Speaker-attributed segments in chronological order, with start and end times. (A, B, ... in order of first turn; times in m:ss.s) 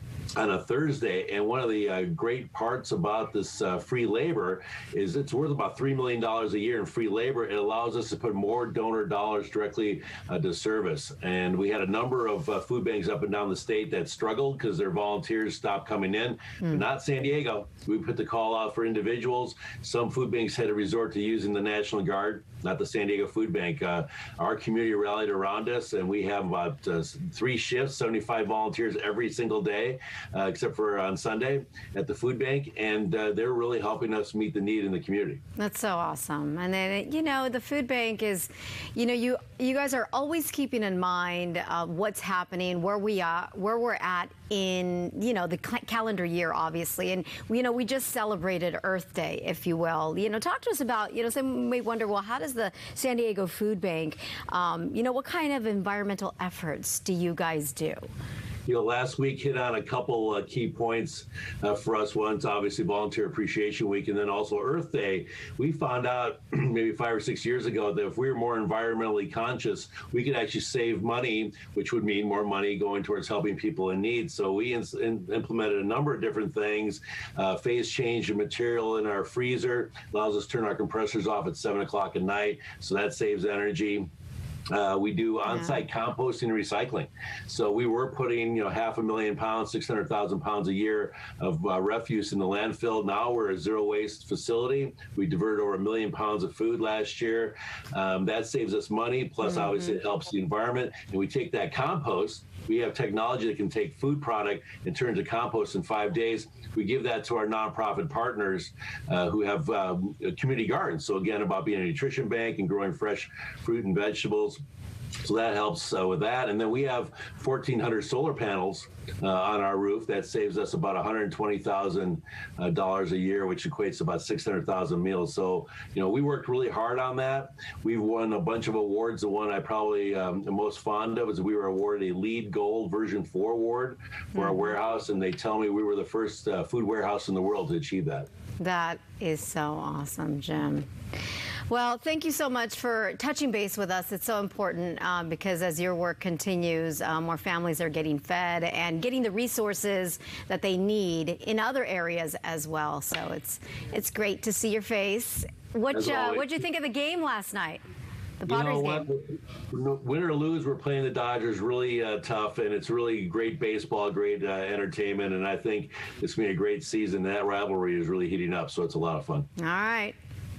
0:00.4-0:35.4 A
0:35.6-0:58.0 B
0:58.7-1:24.1 A
1:24.7-1:54.6 A
1:25.5-1:25.8 B
1:39.5-1:40.0 B
1:55.2-2:18.3 A
2:14.4-2:14.7 B
2:18.6-2:20.9 B
2:21.7-2:37.8 B
2:35.9-2:36.6 A
2:38.4-2:39.1 B
2:38.5-2:49.5 A
2:49.6-2:50.2 B